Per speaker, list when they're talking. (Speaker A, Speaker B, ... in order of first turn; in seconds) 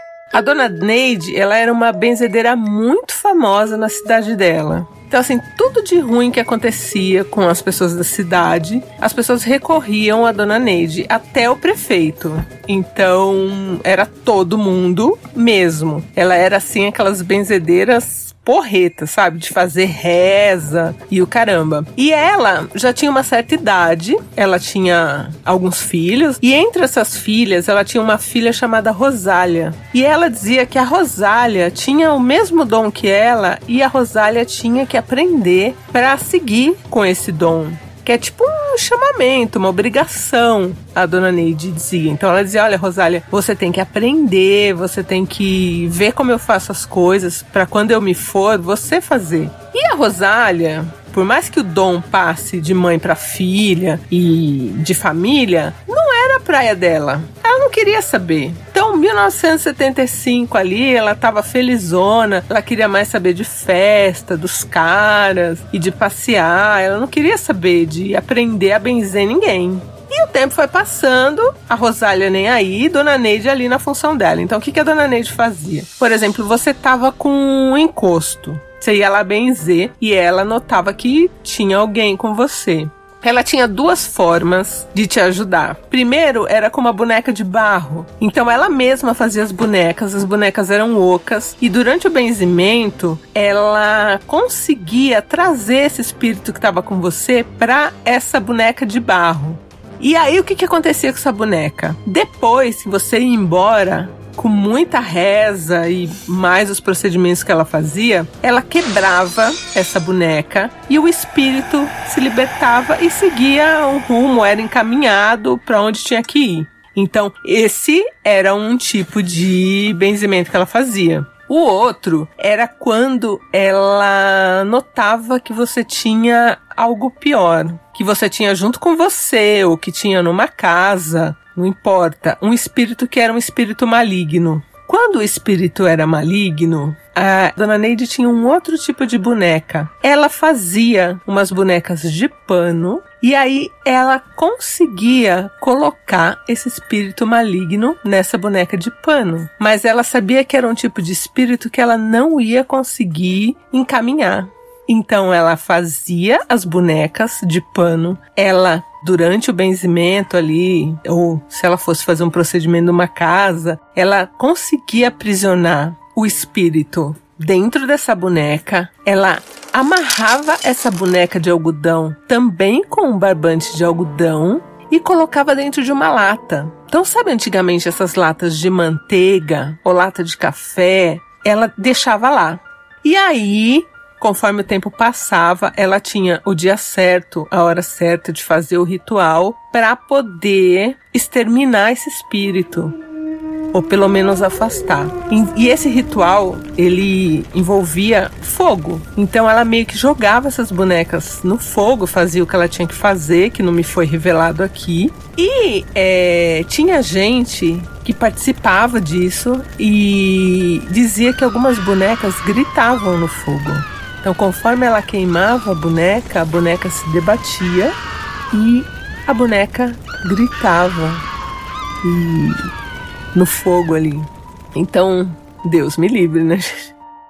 Speaker A: 0.3-193.0, 193.7-217.9, 218.5-221.2, 222.0-222.7, 223.3-227.0